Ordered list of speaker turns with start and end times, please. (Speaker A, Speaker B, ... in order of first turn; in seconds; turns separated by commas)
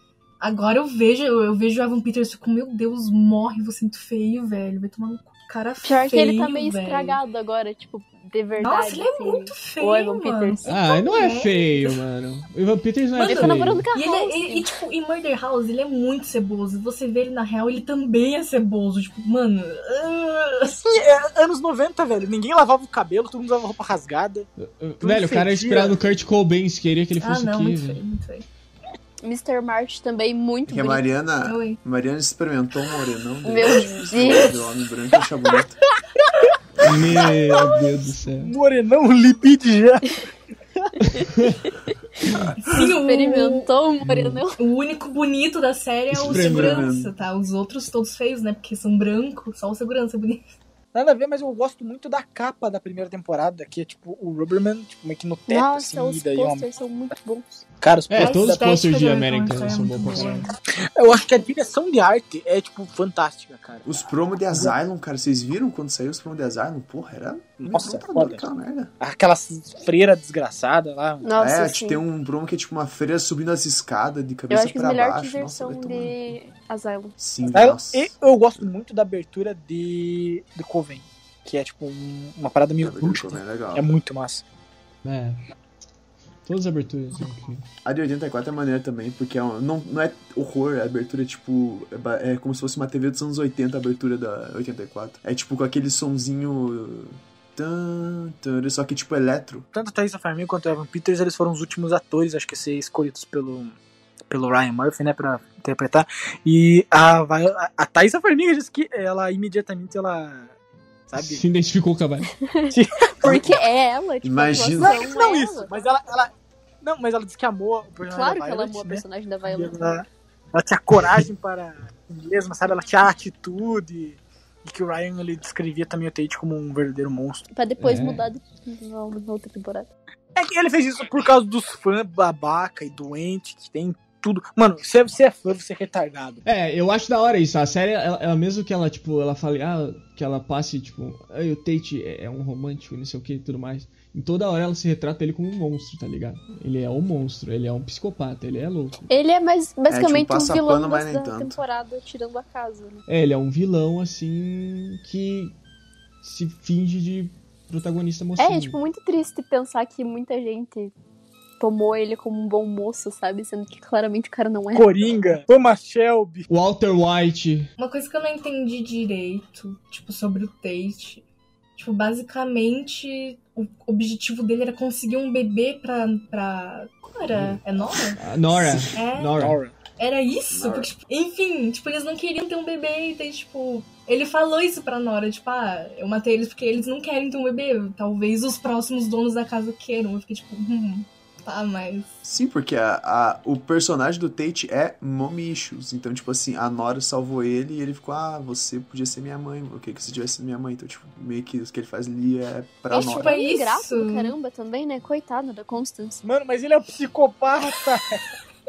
Speaker A: 0.4-7.2, Speaker B: 5.8-10.7, Speaker A: 8.6-12.0, Speaker C: 10.7-13.9, Speaker A: 13.2-20.9, Speaker B: 13.2-14.7, Speaker D: 20.9-24.5, Speaker C: 24.6-28.0, Speaker D: 25.0-26.0, Speaker A: 27.2-28.5, Speaker B: 29.2-31.0, Speaker E: 30.7-35.8, Speaker A: 31.4-31.8, Speaker B: 33.5-34.5, Speaker C: 36.8-38.5, Speaker A: 36.8-38.1, Speaker D: 38.3-40.2, Speaker C: 41.0-41.7, Speaker A: 42.6-43.7, Speaker B: 43.0-44.6, Speaker C: 44.0-44.4, Speaker A: 44.6-50.4, Speaker E: 46.1-47.1, Speaker C: 46.2-46.9, Speaker D: 50.9-56.7, Speaker B: 55.5-57.6, Speaker D: 57.8-58.7, Speaker C: 58.1-60.5, Speaker A: 58.2-60.5, Speaker D: 61.0-64.7, Speaker E: 63.9-68.9, Speaker D: 67.6-68.4, Speaker D: 69.0-71.3, Speaker B: 71.2-72.0, Speaker E: 71.4-76.3, Speaker B: 74.5-77.2, Speaker E: 77.2-78.7, Speaker D: 77.5-84.4, Speaker E: 82.8-83.9, Speaker C: 85.0-85.4, Speaker C: 86.5-87.7, Speaker E: 87.8-99.7, Speaker D: 99.7-103.8, Speaker D: 104.3-110.5, Speaker D: 111.1-111.4, Speaker C: 111.2-112.3, Speaker B: 112.4-115.7, Speaker D: 112.7-113.5, Speaker E: 114.2-115.0, Speaker D: 114.8-116.3, Speaker D: 116.8-127.5, Speaker B: 118.1-119.9, Speaker B: 127.5-129.9, Speaker C: 127.8-128.2, Speaker D: 130.3-136.4, Speaker C: 136.4-149.1, Speaker B: 149.1-153.0, Speaker E: 149.9-151.6, Speaker C: 153.1-155.6, Speaker C: 156.2-158.8, Speaker B: 158.4-160.9, Speaker B: 161.6-164.9, Speaker D: 164.7-166.5, Speaker C: 166.5-167.7, Speaker A: 167.8-171.2, Speaker A: 171.8-179.4, Speaker C: 177.3-177.6, Speaker C: 178.2-179.6, Speaker D: 179.4-179.8, Speaker A: 180.0-192.2, Speaker E: 180.5-180.9, Speaker E: 192.2-203.4, Speaker B: 202.9-206.2, Speaker A: 202.9-204.3, Speaker D: 206.2-208.2